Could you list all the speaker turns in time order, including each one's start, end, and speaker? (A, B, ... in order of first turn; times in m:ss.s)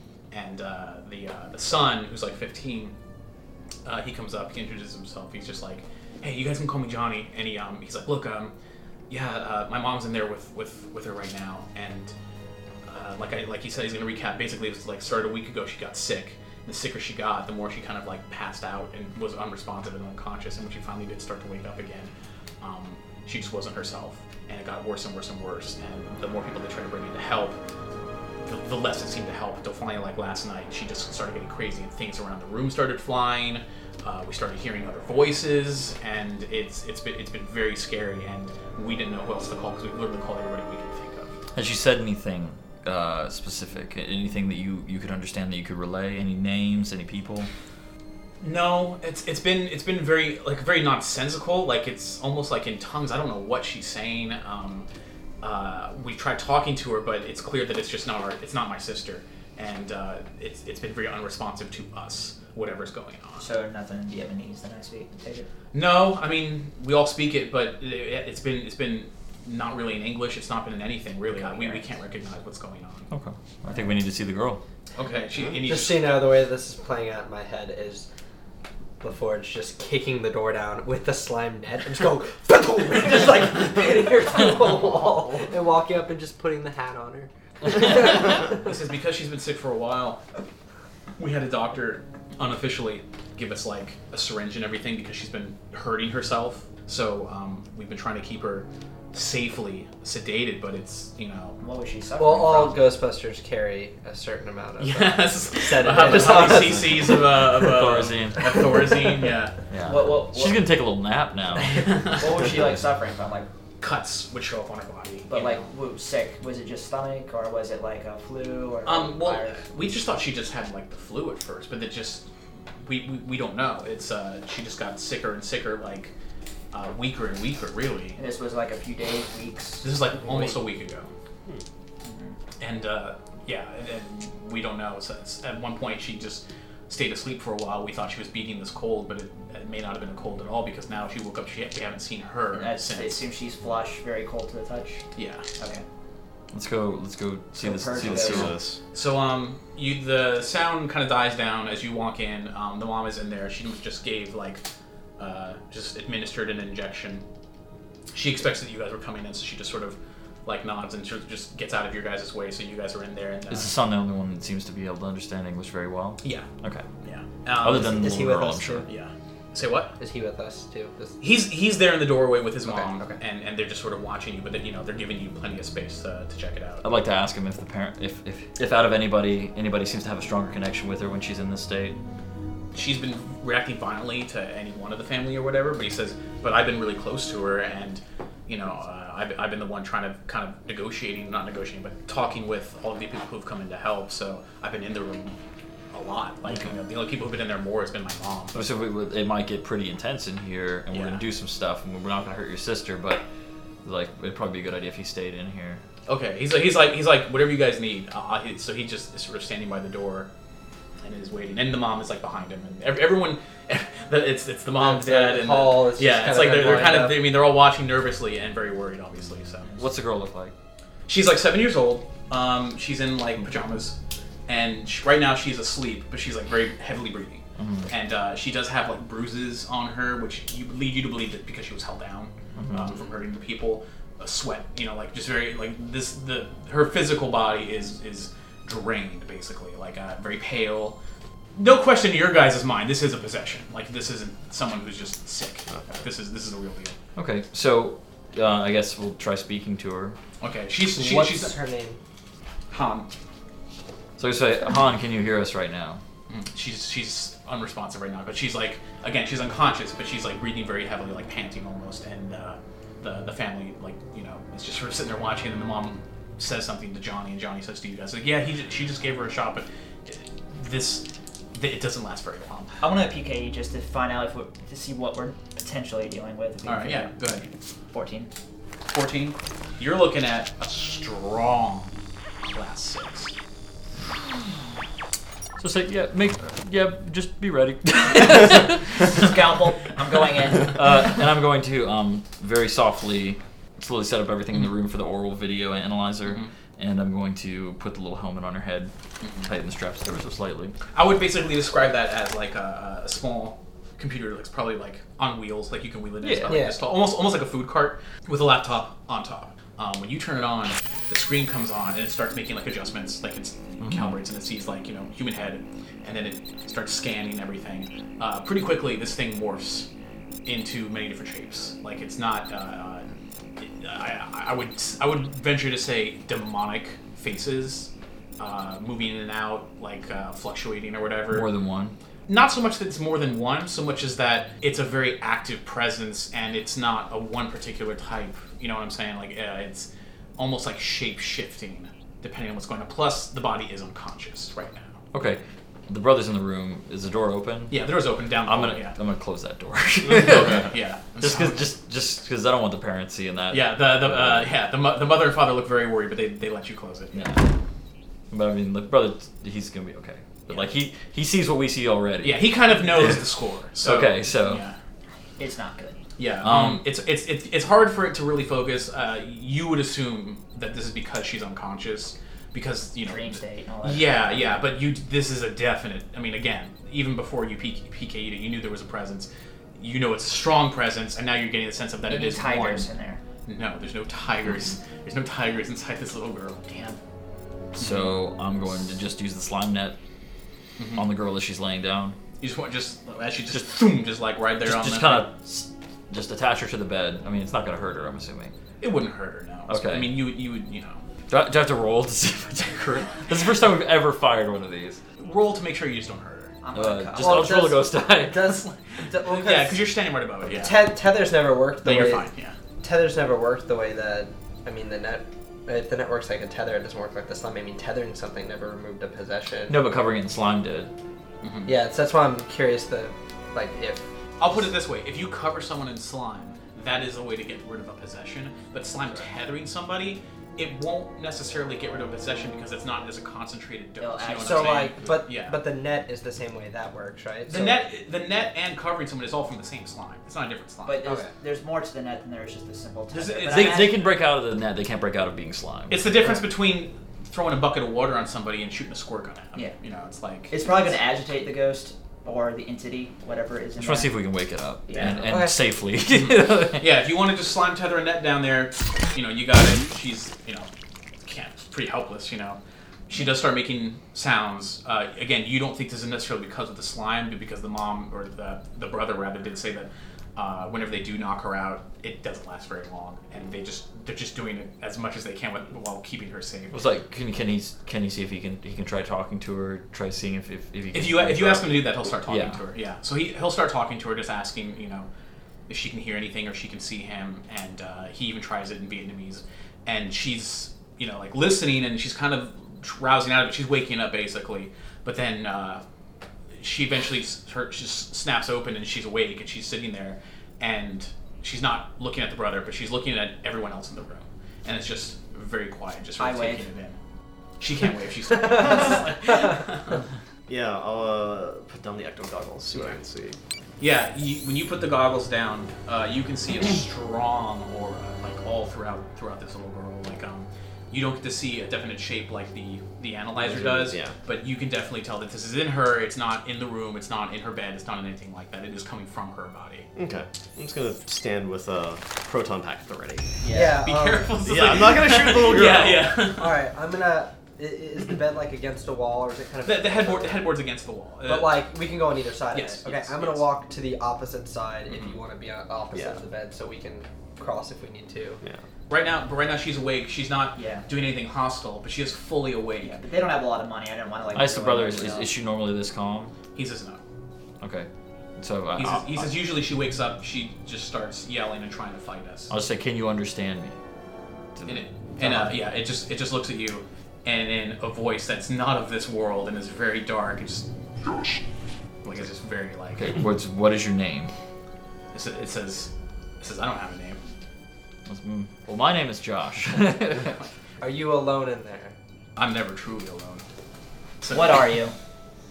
0:00.3-0:02.9 A
0:03.8-0:08.5 A
0:09.1-0:12.1 A
0:12.8-0:27.6 A
0:28.4-0:41.3 A
0:41.5-0:47.5 B
0:48.4-0:54.9 A
0:55.4-1:03.4 A
1:03.4-1:05.5 C
1:05.7-1:13.1 A
1:11.3-1:11.9 C
1:13.1-1:14.6 B
1:14.9-1:16.3 A
1:15.6-1:18.1 D
1:19.0-1:28.7 D
1:27.8-1:30.2 A
1:31.2-1:41.6 A
1:41.6-1:42.8 C
1:42.2-1:47.2 D
1:44.8-1:49.5 A
1:47.6-1:48.7 B
1:49.7-1:51.9 B
1:49.8-1:50.6 C
1:51.6-1:52.4 A
1:52.2-1:53.5 C
1:53.8-1:55.7 A
1:55.3-1:59.7 C
1:58.8-2:02.3 A
2:02.8-2:06.1 A
2:06.7-2:08.2 A
2:08.2-2:10.4 C
2:09.8-2:11.1 A
2:12.0-2:12.3 C
2:12.6-2:23.2 A
2:22.5-2:25.0 C
2:25.2-2:25.4 A
2:25.6-2:25.8 C
2:26.5-2:28.6 B
2:27.6-2:28.5 C
2:27.9-2:28.8 E
2:28.9-2:34.6 A
2:35.2-2:37.2 A
2:38.1-2:43.7 A
2:43.5-2:46.9 B
2:46.2-2:46.5 A
2:47.0-2:48.2 A
2:47.6-2:48.9 B
2:47.6-2:48.9 D
2:48.8-2:49.9 A
2:50.0-2:51.2 D
2:51.2-2:56.8 A
2:52.6-2:53.2 D
2:56.8-3:02.0 B
3:02.7-3:15.4 A
3:15.9-3:18.6 A
3:16.5-3:16.7 B
3:18.5-3:23.2 B
3:20.9-3:21.2 A
3:23.8-3:25.8 B
3:26.0-3:30.3 A
3:31.0-3:39.7 A
3:34.8-3:37.2 D
3:39.8-3:40.5 B
3:41.1-3:44.0 A
3:44.5-4:01.0 A
3:47.6-3:47.9 B
3:52.6-3:53.0 B
4:01.6-4:07.0 A
4:07.2-4:10.2 B
4:10.4-4:11.6 A
4:10.8-4:12.0 D
4:12.7-4:13.1 A
4:14.2-4:16.0 B
4:16.3-4:32.8 A
4:32.8-4:37.1 C
4:36.6-4:37.5 A
4:37.9-4:38.3 C
4:38.9-4:41.9 A
4:42.4-4:43.3 A
4:45.6-4:49.3 B
4:49.0-4:51.2 C
4:50.5-4:58.9 B
4:56.2-4:56.5 A
4:59.2-4:59.5 A
4:59.4-5:00.8 B
5:00.9-5:19.9 A
5:06.2-5:06.6 B
5:06.5-5:06.8 D
5:13.8-5:14.2 B
5:20.4-5:31.5 A
5:31.3-5:32.0 B
5:32.3-5:45.0 A
5:45.1-5:47.9 B
5:47.7-5:49.0 A
5:48.4-5:54.5 B
5:50.1-5:51.7 A
5:53.5-5:57.3 A
5:57.1-5:57.4 B
5:58.3-6:03.2 B
6:02.2-6:04.8 A
6:03.8-6:04.6 B
6:05.4-6:06.0 C
6:06.2-6:22.9 A
6:06.4-6:06.8 B
6:13.0-6:14.6 C
6:22.1-6:23.2 C
6:23.4-6:27.0 A
6:27.7-6:28.1 A
6:27.7-6:30.0 B
6:30.8-6:31.0 A
6:30.9-6:32.2 B
6:32.4-6:35.3 A
6:33.5-6:33.8 B
6:34.6-6:38.5 B
6:38.8-6:41.0 A
6:39.7-6:40.2 B
6:41.3-6:45.0 B
6:45.2-6:46.6 A
6:46.6-6:47.7 C
6:46.7-6:48.6 B
6:47.2-6:49.9 D
6:48.5-6:50.9 A
6:50.4-6:52.3 D
6:51.8-6:52.6 A
6:52.8-6:59.8 D
6:59.7-7:00.9 B
7:01.4-7:01.7 A
7:01.6-7:04.1 D
7:04.4-7:15.6 A
7:14.0-7:14.9 C
7:14.4-7:17.8 D
7:17.5-7:21.0 A
7:20.8-7:24.0 C
7:21.0-7:21.3 D
7:23.1-7:24.0 A
7:23.4-7:26.1 B
7:25.9-7:30.9 A
7:30.5-7:34.2 C
7:33.8-7:36.9 B
7:34.9-7:35.2 C
7:35.2-7:35.6 D
7:36.1-7:40.7 A
7:41.2-7:56.8 A
7:56.7-8:02.6 B
8:00.9-8:05.1 A
8:05.7-8:15.8 A
8:16.6-8:27.0 A
8:26.2-8:26.7 C
8:27.6-8:30.0 A
8:28.6-8:29.0 C
8:30.5-8:33.4 E
8:33.8-8:49.9 A
8:43.4-8:44.1 E
8:50.0-8:53.4 E
8:53.4-8:53.8 C
8:53.5-8:54.5 D
8:53.5-8:56.6 A
8:54.4-8:56.2 E
8:56.2-9:00.6 D
8:59.6-9:01.7 A
9:01.2-9:08.4 D
9:02.5-9:03.4 A
9:04.9-9:05.2 A
9:05.9-9:06.2 E
9:08.9-9:13.0 A
9:10.6-9:10.8 C
9:12.8-9:15.3 C
9:14.3-9:16.3 B
9:16.5-9:17.0 A
9:17.6-9:19.3 B
9:18.8-9:22.5 A
9:22.5-9:23.8 B
9:24.5-9:25.6 B
9:24.6-9:30.6 A
9:32.0-9:33.2 A
9:33.0-9:34.3 B
9:35.1-9:37.2 A
9:38.0-9:40.4 B
9:40.8-9:42.0 D
9:42.4-9:43.4 A
9:44.2-9:44.8 A
9:44.3-9:44.9 C